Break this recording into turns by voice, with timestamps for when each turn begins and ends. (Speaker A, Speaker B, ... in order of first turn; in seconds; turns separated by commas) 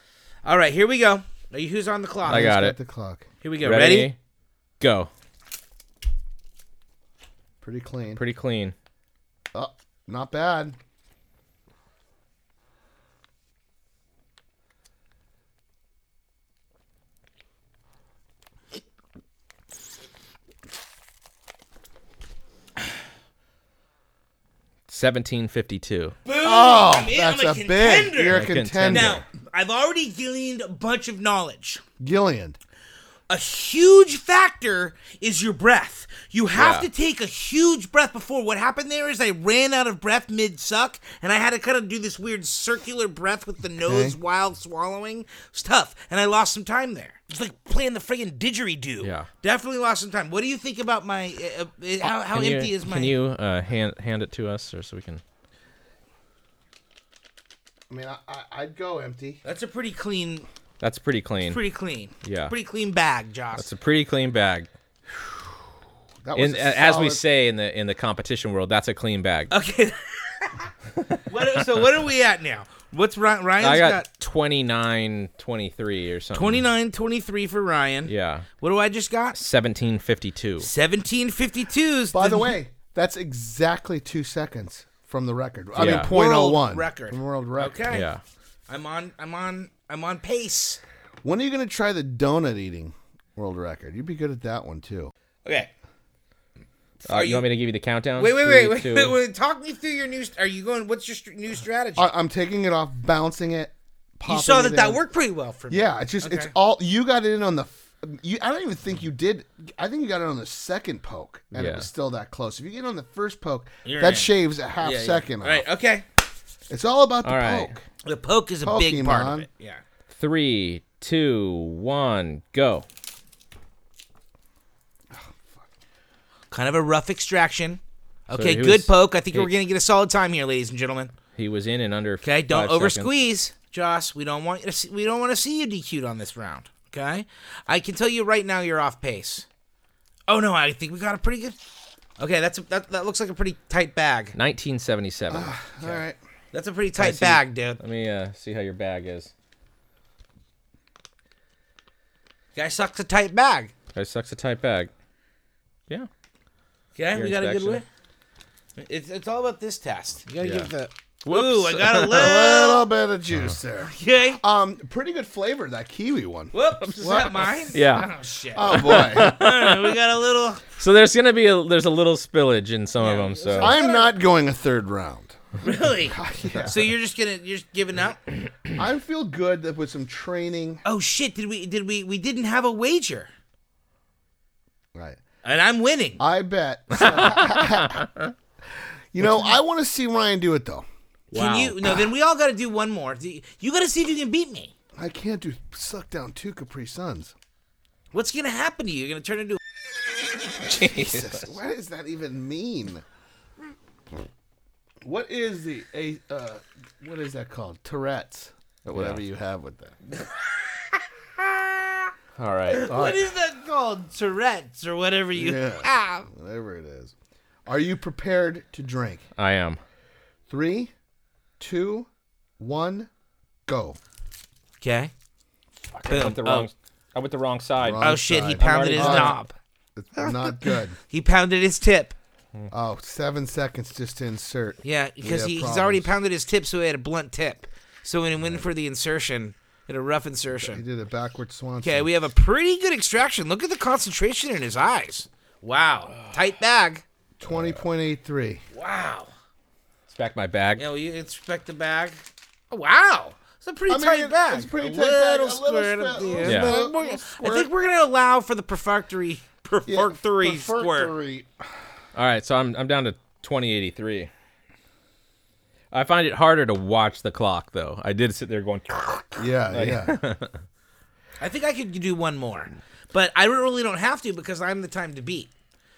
Speaker A: 0.5-2.5, Speaker B: 2.3-3.3, Speaker C: 2.3-2.8, Speaker A: 3.4-4.1, Speaker C: 3.6-4.2, Speaker C: 4.8-5.1, Speaker B: 7.6-8.2, Speaker C: 8.2-8.7, Speaker B: 9.5-10.8, Speaker C: 24.9-26.1, Speaker A: 26.2-31.8, Speaker B: 26.4-29.2, Speaker C: 28.3-29.2, Speaker B: 32.0-32.6, Speaker A: 33.3-53.2, Speaker C: 36.5-36.9, Speaker B: 43.8-44.2, Speaker C: 49.0-49.3, Speaker C: 52.3-55.2, Speaker B: 57.9-59.4, Speaker A: 59.4-60.5, Speaker C: 60.8-61.6, Speaker A: 61.5-63.7, Speaker C: 62.2-62.5, Speaker C: 63.6-64.7, Speaker B: 66.2-67.2, Speaker C: 66.4-69.5, Speaker A: 69.5-70.7, Speaker C: 71.0-71.5, Speaker A: 71.3-74.1, Speaker C: 73.6-76.6, Speaker A: 76.3-79.4, Speaker C: 78.1-78.5, Speaker C: 79.3-80.7, Speaker A: 80.6-82.6, Speaker B: 82.1-87.8, Speaker C: 85.8-86.1, Speaker A: 85.8-88.1, Speaker C: 87.9-88.2, Speaker A: 88.7-90.8, Speaker B: 91.2-95.1, Speaker A: 95.5-95.7, Speaker A: 97.0-97.5, Speaker C: 97.1-99.2, Speaker A: 98.2-102.1, Speaker B: 102.0-105.0, Speaker A: 104.3-106.5, Speaker B: 105.7-115.7, Speaker C: 111.5-111.9, Speaker A: 113.8-116.0, Speaker B: 116.7-117.8, Speaker C: 117.2-117.8, Speaker A: 118.0-119.8, Speaker B: 118.6-119.5, Speaker C: 120.1-122.8, Speaker B: 125.1-125.6, Speaker A: 126.5-131.1, Speaker C: 128.3-129.5, Speaker C: 131.4-133.1, Speaker A: 132.2-139.5, Speaker A: 140.3-141.6, Speaker A: 142.2-144.3, Speaker C: 144.3-145.6, Speaker B: 145.3-146.2, Speaker A: 146.5-147.8, Speaker C: 147.0-149.3, Speaker A: 152.6-153.7, Speaker C: 153.9-154.9, Speaker A: 157.0-157.8, Speaker C: 157.1-157.8, Speaker A: 158.8-162.9, Speaker C: 160.4-160.7, Speaker C: 161.2-162.4, Speaker B: 162.1-167.5, Speaker A: 163.9-164.4, Speaker A: 166.5-170.7, Speaker C: 166.9-168.1, Speaker B: 168.6-169.4, Speaker C: 168.7-170.0, Speaker C: 170.8-173.8, Speaker A: 173.0-174.1, Speaker B: 173.6-175.4, Speaker A: 175.6-178.2, Speaker B: 176.0-176.9, Speaker B: 178.8-180.8, Speaker A: 180.8-183.3, Speaker A: 185.4-186.2, Speaker B: 186.2-188.1, Speaker C: 187.3-188.1, Speaker B: 189.1-190.9, Speaker C: 191.3-192.0, Speaker A: 191.3-194.7, Speaker B: 195.0-197.3, Speaker A: 198.1-199.6, Speaker C: 200.7-201.4, Speaker B: 200.8-203.0, Speaker B: 205.0-209.9, Speaker C: 208.9-209.2, Speaker A: 210.1-212.1, Speaker C: 212.4-212.9, Speaker A: 212.7-216.3, Speaker B: 212.8-213.2, Speaker B: 215.3-217.1, Speaker B: 217.7-219.2, Speaker C: 219.4-219.8, Speaker B: 220.5-220.9, Speaker B: 221.6-222.1, Speaker B: 222.6-223.1, Speaker B: 223.7-224.0, Speaker A: 224.8-225.1, Speaker C: 225.9-229.4, Speaker A: 226.1-226.7, Speaker B: 227.8-229.4, Speaker A: 228.0-229.6, Speaker B: 230.0-231.0, Speaker A: 230.2-232.2, Speaker B: 232.7-236.1, Speaker A: 234.8-240.8, Speaker B: 238.4-238.7, Speaker B: 240.5-242.1, Speaker A: 241.8-247.0, Speaker B: 247.4-248.6, Speaker A: 248.7-249.3, Speaker C: 250.1-250.8, Speaker A: 250.8-261.1, Speaker B: 253.9-257.7, Speaker C: 256.4-256.8, Speaker B: 259.9-261.7, Speaker C: 262.1-264.3, Speaker C: 265.9-270.6, Speaker B: 269.4-270.2, Speaker A: 271.4-275.5